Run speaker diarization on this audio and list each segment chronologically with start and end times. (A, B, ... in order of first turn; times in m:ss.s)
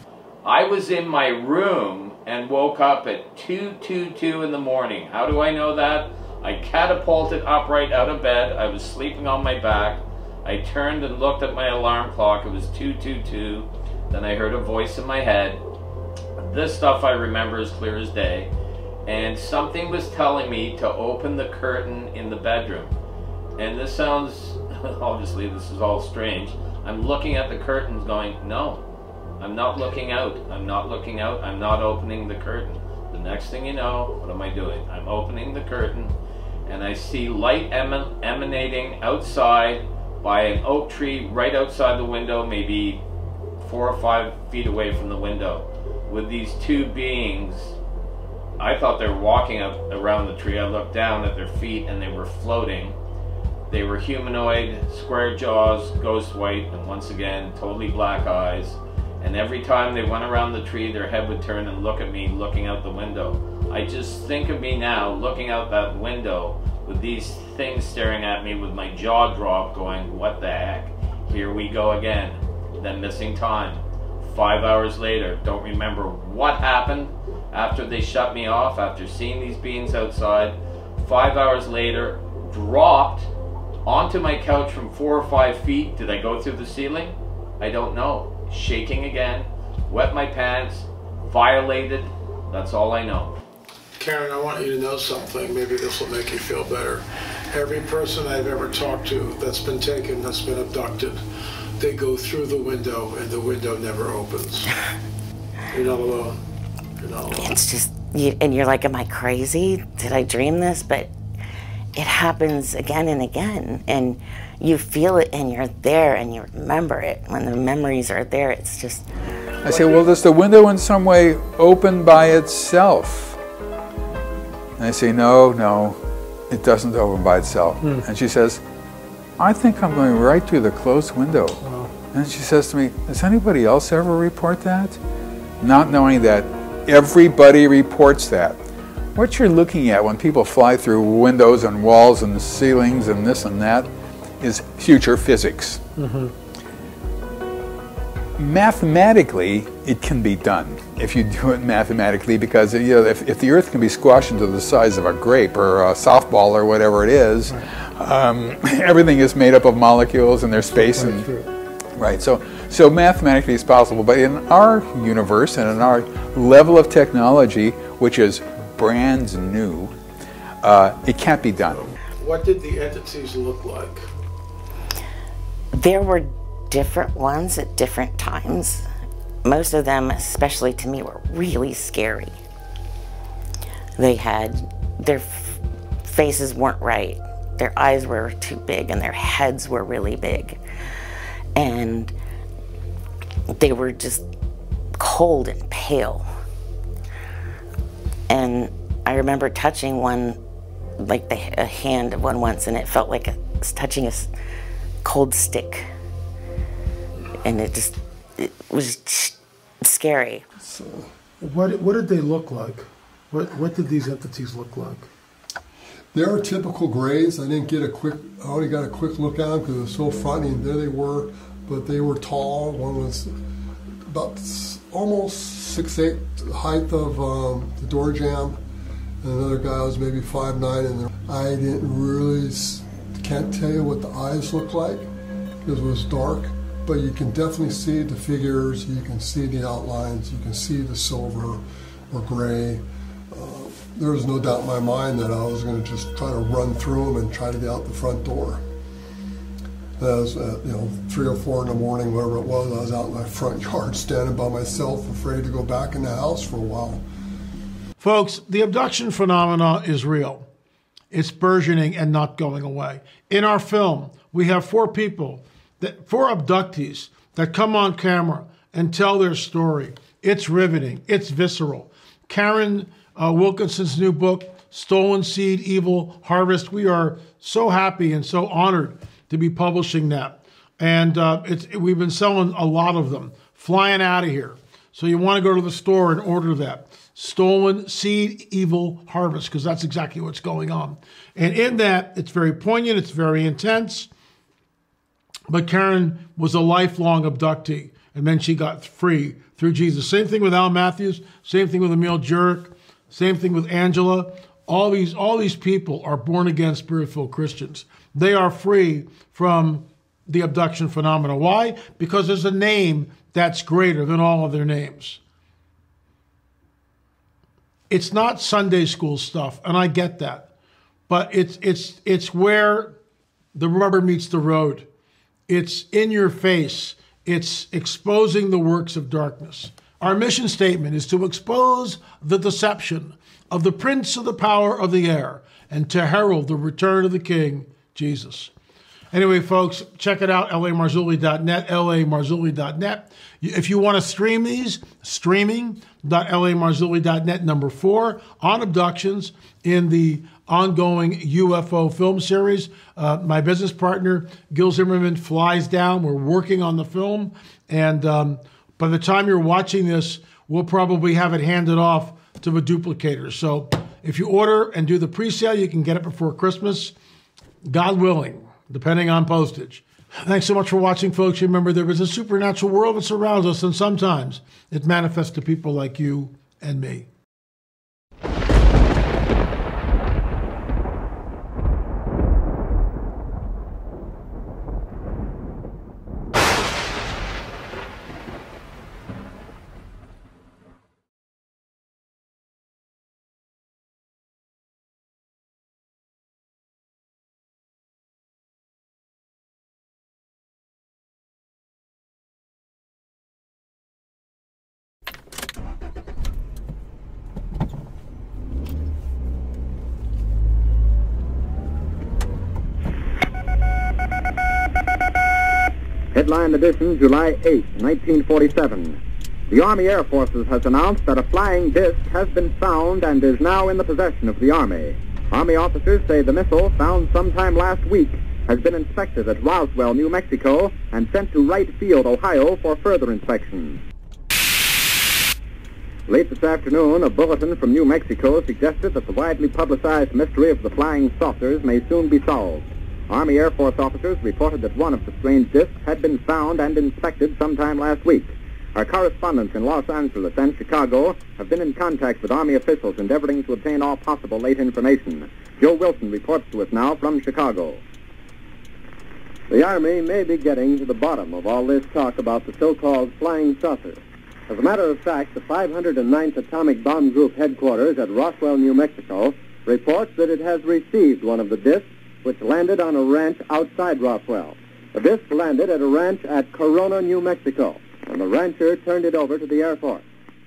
0:00.4-0:15.6 A
0:16.4-0:18.5 A
0:19.0-0:22.9 A
0:23.6-0:28.8 A
0:29.4-0:36.1 A
0:36.7-0:43.0 A
0:43.6-0:47.7 A
0:48.6-0:53.0 A
0:53.7-1:23.3 A
1:23.8-1:33.3 A
1:34.0-1:41.2 B
1:41.8-1:44.7 B
1:45.7-1:46.4 B
1:47.0-1:47.5 B
1:47.3-1:51.1 C
1:52.0-1:59.1 C
1:59.6-2:03.4 D
1:59.6-2:00.1 B
2:04.8-2:06.0 D
2:06.5-2:08.6 D
2:09.4-2:11.6 D
2:11.6-2:11.9 B
2:12.1-2:15.0 D
2:15.6-2:18.6 D
2:19.1-2:25.8 D
2:26.0-2:26.3 B
2:28.4-2:41.3 D
2:40.6-2:41.4 B
2:42.0-2:49.9 D
2:50.6-2:51.8 D
2:52.2-2:54.1 B
2:55.7-2:58.8 C
2:59.4-3:02.3 C
3:04.0-3:10.6 C
3:11.6-3:12.1 C
3:13.6-3:14.2 C
3:15.0-3:16.3 C
3:18.3-3:20.4 C
3:21.0-3:24.3 C
3:25.0-3:25.9 C
3:27.4-3:30.4 C
3:30.6-3:31.1 E
3:31.4-3:35.1 B
3:36.1-3:43.3 E
3:44.1-3:48.6 E
3:49.2-3:55.1 E
3:55.6-4:08.6 E
4:10.0-4:17.0 E
4:18.0-4:20.5 B
4:21.1-4:54.1 B
4:55.5-5:15.2 B
5:17.9-5:20.5 B
5:21.1-5:23.0 B
5:23.5-5:24.8 B
5:25.5-5:38.5 B
5:39.1-6:06.9 B
6:07.7-6:17.1 B
6:56.1-7:13.8 F
7:16.1-7:37.8 F
7:39.5-8:00.0 G